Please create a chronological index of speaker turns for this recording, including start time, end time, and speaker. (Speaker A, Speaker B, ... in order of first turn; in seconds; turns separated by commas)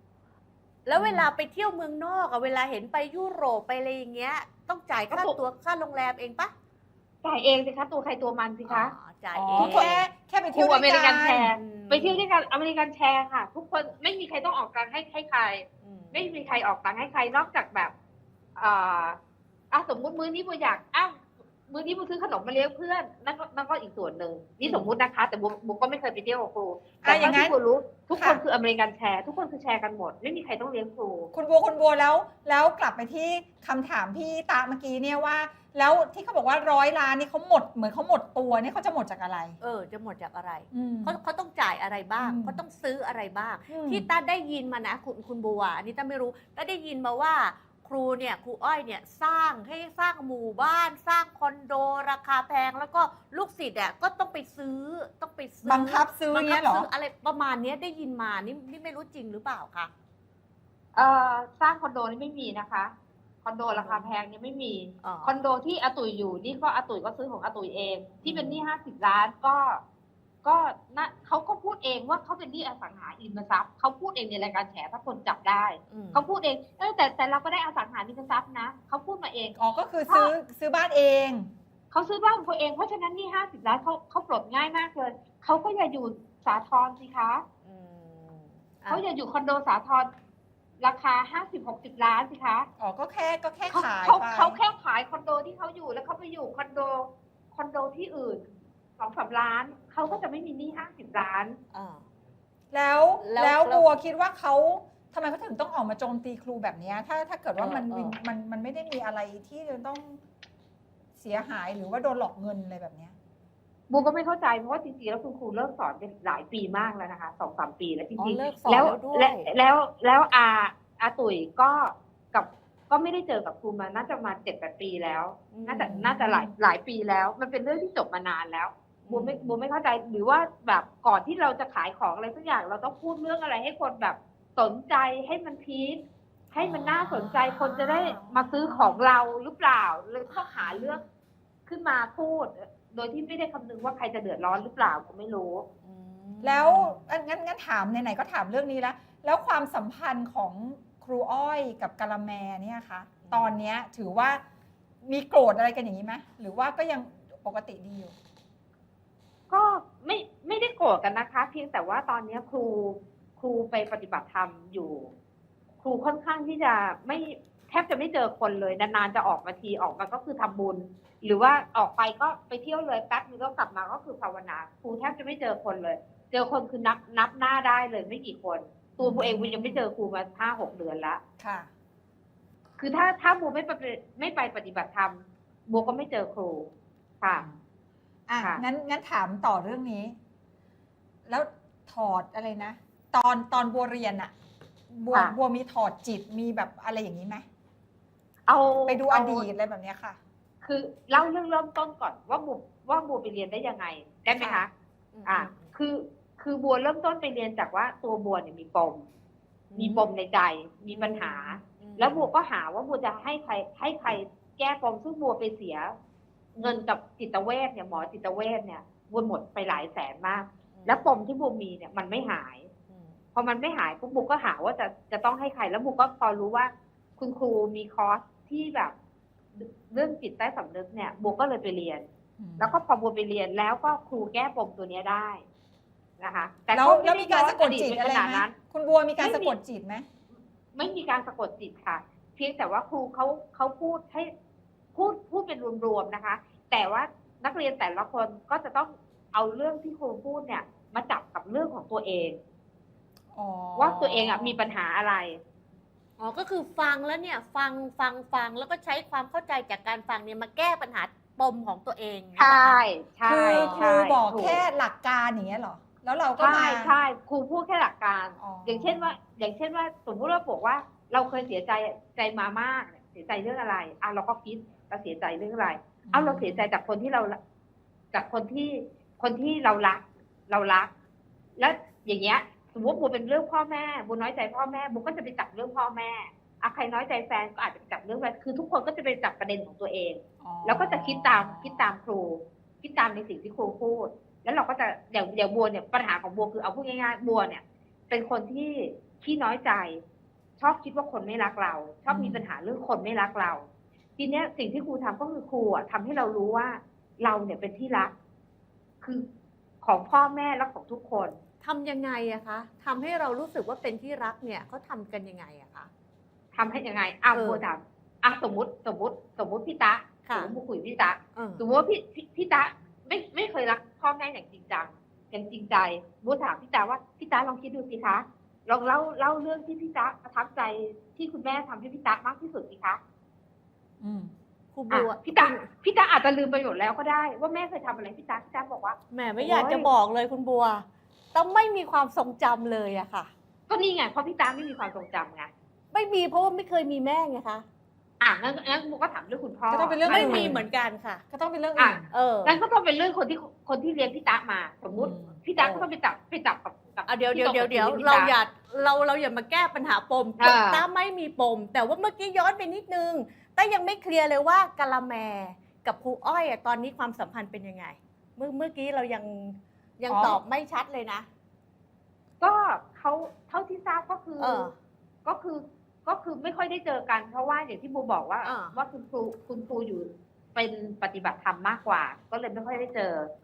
Speaker A: 0.8-6.5, Speaker B: 0.9-1.3, Speaker C: 5.1-5.4, Speaker C: 7.2-8.9, Speaker A: 8.7-10.1, Speaker B: 9.3-11.5, Speaker C: 9.5-9.9, Speaker C: 10.5-17.9, Speaker A: 11.6-12.2, Speaker A: 15.8-16.3, Speaker C: 18.6-19.2, Speaker C: 19.7-31.3, Speaker A: 24.6-24.9, Speaker B: 27.0-27.6, Speaker B: 28.1-28.4, Speaker B: 31.3-39.5, Speaker A: 39.6-59.9, Speaker B: 40.7-41.2, Speaker B: 42.2-42.6, Speaker B: 43.7-44.1, Speaker B: 55.6-56.9, Speaker C: 60.9-62.9, Speaker C: 63.4-69.8, Speaker A: 63.7-64.1, Speaker A: 65.0-65.3, Speaker A: 68.2-68.6, Speaker C: 70.4-79.6, Speaker A: 75.9-76.2, Speaker B: 79.6-81.5, Speaker C: 81.9-87.4, Speaker A: 87.6-89.0, Speaker C: 88.9-90.1, Speaker C: 90.8-92.7, Speaker B: 92.8-94.6, Speaker C: 93.7-98.4, Speaker C: 99.0-101.6, Speaker A: 101.7-102.0, Speaker B: 102.7-110.2, Speaker A: 103.2-103.8, Speaker A: 107.6-108.2, Speaker B: 111.2-113.1, Speaker C: 113.9-136.0, Speaker A: 118.2-119.5, Speaker A: 125.5-126.2, Speaker B: 125.8-126.5, Speaker A: 129.0-129.5, Speaker C: 136.5-141.0, Speaker A: 136.6-138.5, Speaker A: 140.3-141.0, Speaker C: 141.7-145.7, Speaker A: 145.8-147.0, Speaker B: 146.4-154.4, Speaker A: 153.2-153.5, Speaker B: 155.0-158.1, Speaker C: 159.5-165.1, Speaker C: 165.8-181.2, Speaker B: 179.0-179.8, Speaker B: 181.4-181.7, Speaker C: 182.8-187.4, Speaker B: 187.3-187.6, Speaker B: 188.3-190.2, Speaker B: 191.3-194.3, Speaker B: 194.9-197.4, Speaker C: 198.5-199.5, Speaker B: 198.8-200.2, Speaker C: 200.6-204.7, Speaker B: 204.3-204.6, Speaker A: 205.1-205.7, Speaker C: 205.2-209.0, Speaker A: 209.7-210.1, Speaker C: 209.8-215.9, Speaker A: 210.9-212.3, Speaker C: 216.5-222.7, Speaker A: 220.7-221.0, Speaker A: 222.9-223.2, Speaker C: 223.3-228.9, Speaker C: 229.5-232.1, Speaker B: 232.4-232.8, Speaker C: 232.6-235.4, Speaker C: 236.2-238.5, Speaker B: 236.7-240.0, Speaker C: 239.2-239.5, Speaker C: 240.7-244.3, Speaker C: 244.9-252.4, Speaker B: 253.3-254.6, Speaker C: 253.8-255.4, Speaker A: 256.2-262.8, Speaker C: 262.4-264.6, Speaker B: 263.2-266.9, Speaker A: 263.5-263.8, Speaker C: 266.4-277.4, Speaker B: 268.4-269.1, Speaker B: 276.0-276.7, Speaker C: 278.1-280.9, Speaker C: 281.6-300.0, Speaker B: 290.4-291.9, Speaker C: 300.6-303.6, Speaker B: 302.1-302.4, Speaker C: 304.2-308.1, Speaker C: 309.8-311.4, Speaker A: 311.6-315.9, Speaker C: 316.5-333.0, Speaker A: 317.3-317.6, Speaker A: 320.2-320.5, Speaker A: 321.4-321.6, Speaker B: 334.0-334.3, Speaker A: 334.7-335.7, Speaker C: 334.9-339.9, Speaker A: 339.1-343.3, Speaker C: 343.7-345.5, Speaker A: 345.9-347.6, Speaker C: 348.2-350.5, Speaker B: 349.7-350.6, Speaker A: 350.1-351.2, Speaker B: 351.3-352.1, Speaker C: 351.8-358.3, Speaker A: 352.1-352.6, Speaker B: 354.9-355.3, Speaker A: 355.6-355.9, Speaker A: 357.1-371.3, Speaker C: 360.4-360.8, Speaker B: 370.1-370.4, Speaker C: 372.4-374.7, Speaker A: 374.4-374.7, Speaker C: 375.2-383.3, Speaker A: 378.4-378.8